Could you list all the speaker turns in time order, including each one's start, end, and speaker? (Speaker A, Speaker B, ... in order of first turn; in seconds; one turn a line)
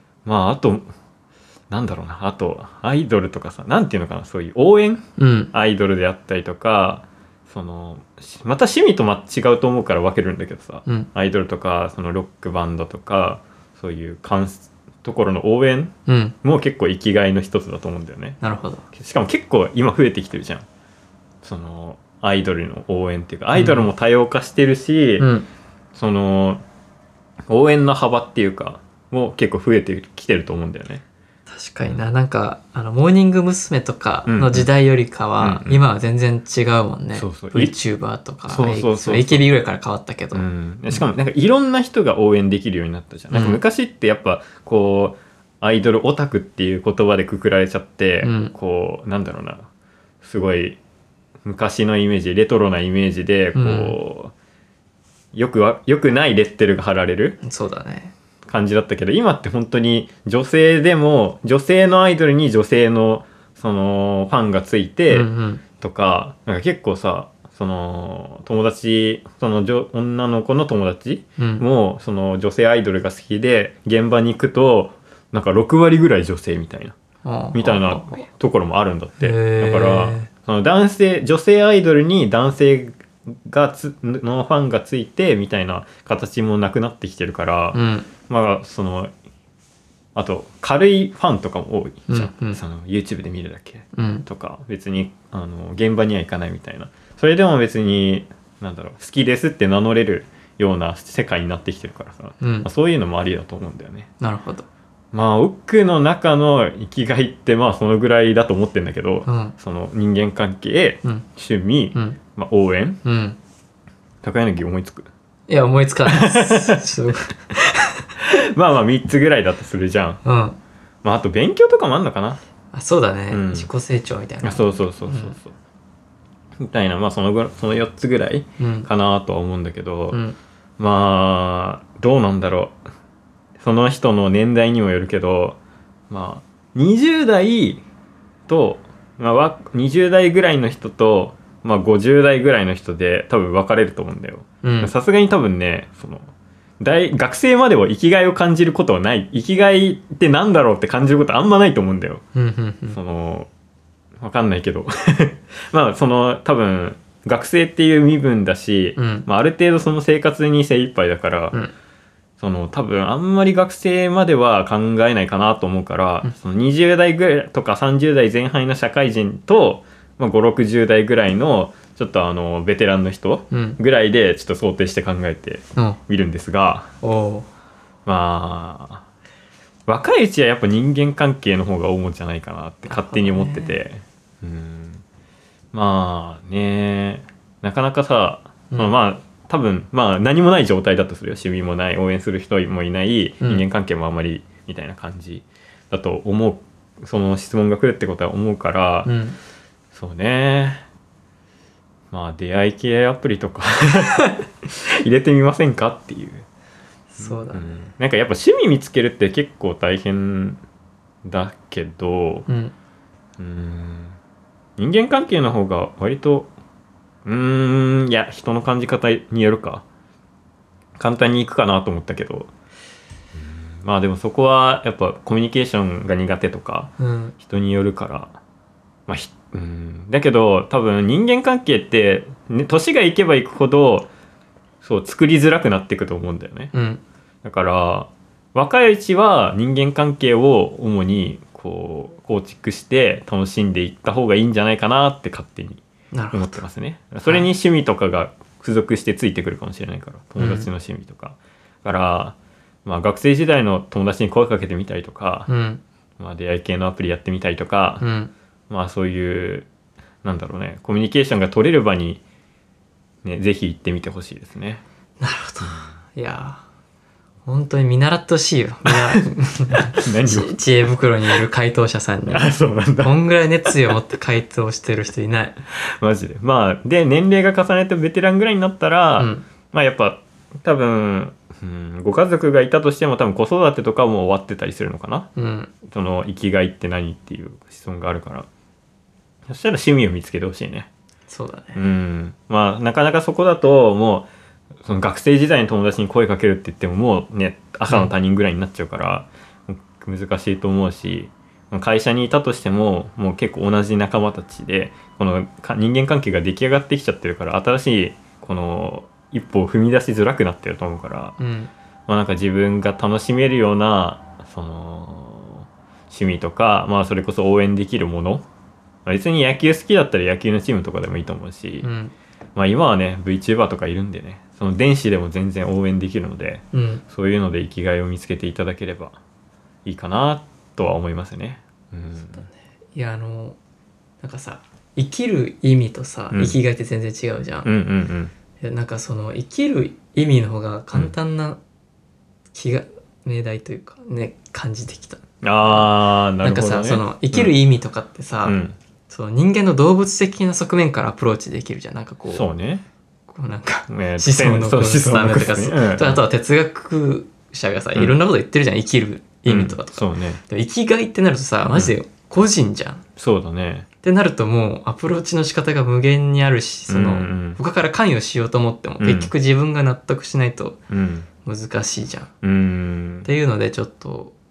Speaker A: 0.2-0.9
Speaker A: 1.7-18.4
Speaker B: 5.2-5.5
Speaker B: 16.1-16.4
Speaker B: 18.4-18.9
Speaker A: 18.9-20.7
Speaker A: 21.4-25.3
Speaker B: 23.5-23.9
Speaker B: 25.2-25.5
Speaker A: 25.9-26.6
Speaker A: 27.5-31.0
Speaker B: 31.5-41.0
Speaker A: 34.3-34.7
Speaker A: 35.4-35.8
Speaker A: 37.1-37.8
Speaker A: 38.5-39.5
Speaker A: 40.3-49.7
Speaker B: 43.3-43.6
Speaker B: 48.2-48.5
Speaker A: 50.2-50.8
Speaker A: 51.5-54.3
Speaker B: 53.5-54.0
Speaker A: 55.3-57.4
Speaker B: 57.4-58.1
Speaker A: 58.5-77.0
Speaker B: 65.1-65.6
Speaker B: 71.4-71.7
Speaker B: 77.2-78.2
Speaker A: 77.5-89.1
Speaker B: 79.2-80.3
Speaker B: 87.7-88.1
Speaker A: 90.2-104.1
Speaker B: 92.1-92.6
Speaker B: 94.0-94.3
Speaker B: 102.4-102.7
Speaker B: 104.2-104.7
Speaker A: 105.1-113.0
Speaker B: 109.3-109.5
Speaker B: 113.0-113.4
Speaker A: 114.2-115.1
Speaker B: 115.5-118.1
Speaker A: 116.1-116.9
Speaker A: 118.2-120.2
Speaker B: 120.2-120.6
Speaker A: 121.0-122.4
Speaker B: 122.7-125.3
Speaker A: 123.3-123.7
Speaker A: 124.4-125.5
Speaker A: 126.6-130.2
Speaker B: 128.6-128.9
Speaker B: 130.1-130.4
Speaker A: 130.8-132.8
Speaker A: 133.6-135.6
Speaker A: 136.1-137.8
Speaker A: 138.5-152.2
Speaker B: 144.6-144.9
Speaker B: 152.3-153.0
Speaker A: 152.9-153.5
Speaker A: 154.2-161.6
Speaker B: 159.0-159.3
Speaker A: 162.4-176.9
Speaker B: 173.5-173.8
Speaker B: 177.0-177.5
Speaker A: 178.1-179.0
Speaker A: 179.9-185.0
Speaker B: 182.9-183.8
Speaker A: 185.7-199.1
Speaker B: 199.1-199.4
Speaker A: 199.9-200.8
Speaker A: 202.1-206.4
Speaker B: 207.1-207.8
Speaker A: 207.2-210.6
Speaker A: 211.2-212.5
Speaker B: 212.5-212.7
Speaker A: 213.4-214.2
Speaker A: 214.8-216.5
Speaker A: 217.2-219.8
Speaker A: 221.0-222.5
Speaker A: 223.3-228.3
Speaker B: 227.0-227.3
Speaker A: 229.1-234.1
Speaker A: 234.8-236.7
Speaker B: 236.7-237.0
Speaker A: 237.4-255.5
Speaker B: 246.1-246.6
Speaker B: 250.4-250.7
Speaker B: 255.5-255.8
Speaker A: 256.2-258.0
Speaker B: 258.0-258.3
Speaker A: 258.7-259.7
Speaker A: 260.2-262.2
Speaker A: 263.2-264.8
Speaker B: 265.2-266.6
Speaker B: 267.5-275.6
Speaker A: 268.9-270.6
Speaker A: 272.3-273.7
Speaker A: 275.8-285.3
Speaker B: 279.2-279.5
Speaker B: 285.4-285.7
Speaker A: 285.8-288.5
Speaker A: 289.5-290.9
Speaker B: 291.3-291.8
Speaker A: 291.8-294.3
Speaker A: 294.8-311.4
Speaker B: 311.4-311.7
Speaker A: 312.1-318.4
Speaker A: 319.1-321.9
Speaker B: 321.8-322.1
Speaker A: 322.6-329.2
Speaker B: 326.7-327.0
Speaker A: 329.9-332.4
Speaker B: 332.4-333.6
Speaker B: 334.2-337.7
Speaker A: 336.3-336.6
Speaker A: 337.6-338.3
Speaker B: 338.6-341.6
Speaker B: 342.5-352.5
Speaker A: 345.4-347.5
Speaker A: 348.5-348.8
Speaker A: 352.3-352.9
Speaker B: 353.3-363.0
Speaker A: 353.9-356.2
Speaker A: 359.5-360.4
Speaker A: 363.2-363.9
Speaker B: 364.0-370.8
Speaker A: 366.9-367.6
Speaker A: 369.0-369.3
Speaker A: 370.9-371.3
Speaker B: 371.4-372.3
Speaker A: 372.4-373.3
Speaker B: 373.2-374.3